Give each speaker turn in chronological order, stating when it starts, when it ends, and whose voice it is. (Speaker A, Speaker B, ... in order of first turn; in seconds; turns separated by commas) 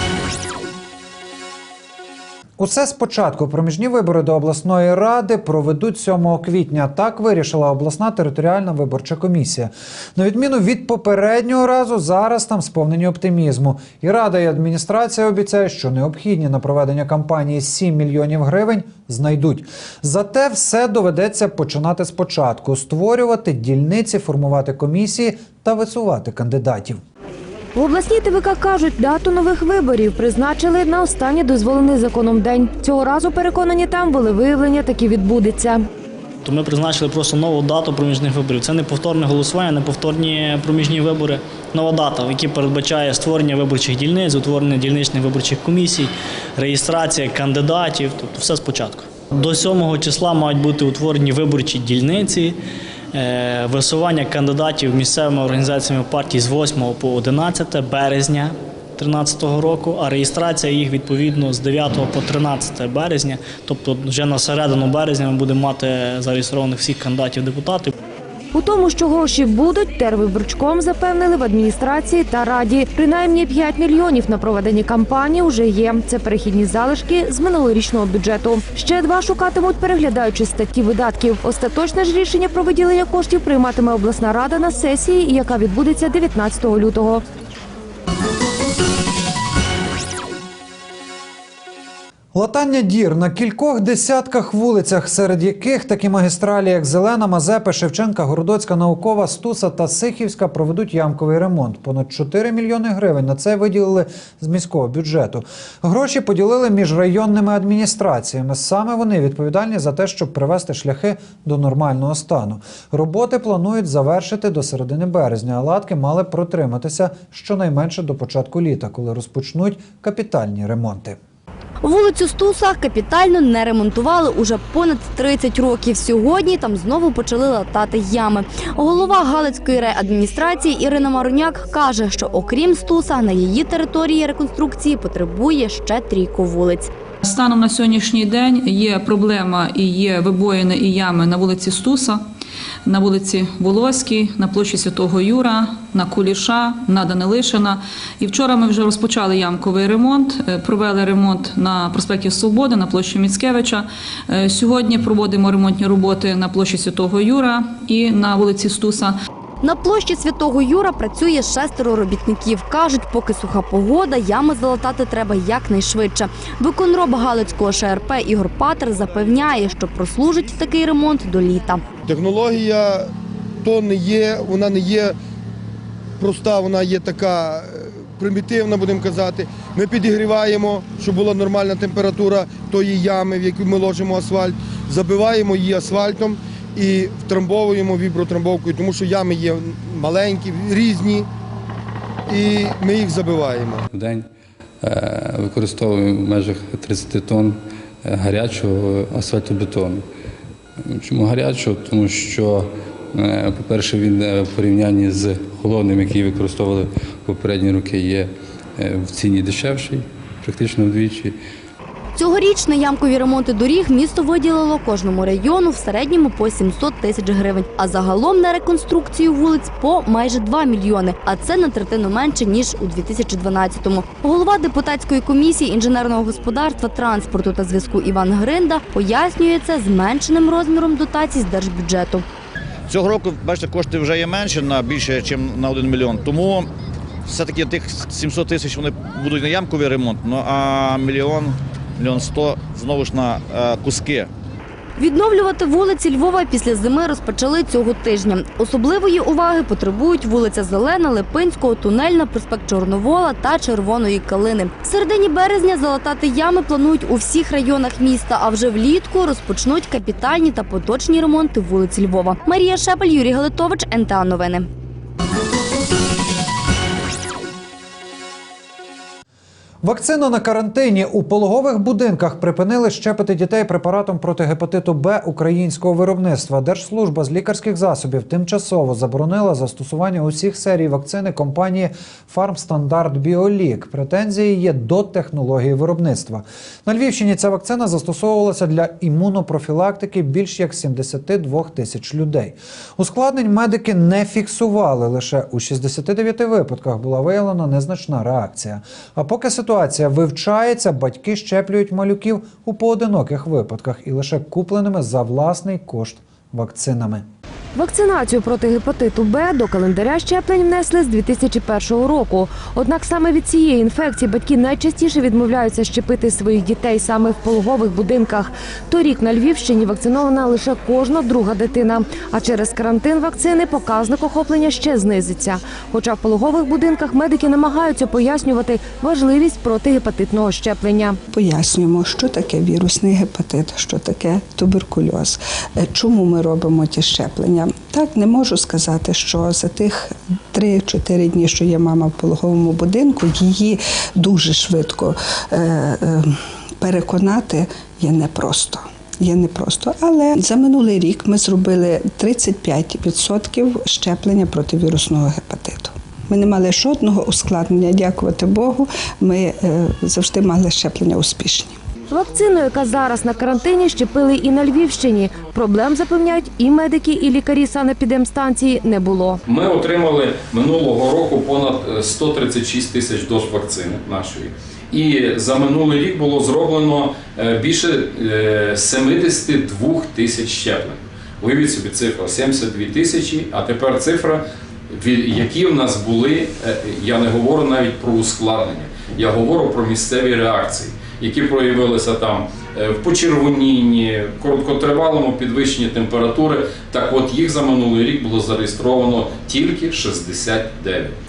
Speaker A: 2.6-27.0, Speaker B: 27.7-35.8, Speaker C: 36.4-52.6, Speaker C: 53.1-67.9, Speaker B: 68.5-87.2, Speaker A: 92.3-121.2, Speaker D: 121.8-136.9, Speaker E: 137.3-142.2, Speaker E: 142.8-159.1, Speaker D: 159.6-171.8, Speaker F: 172.1-173.0, Speaker F: 173.6-175.1, Speaker F: 176.2-191.2, Speaker F: 192.3-193.8, Speaker G: 193.9-194.3, Speaker G: 194.8-200.1, Speaker G: 200.8-211.4, Speaker D: 212.1-232.2, Speaker H: 232.9-236.7, Speaker H: 237.2-244.3, Speaker D: 245.0-264.7, Speaker A: 269.8-307.2, Speaker B: 307.7-331.2, Speaker I: 331.3-361.8, Speaker B: 362.1-369.4, Speaker J: 369.4-401.1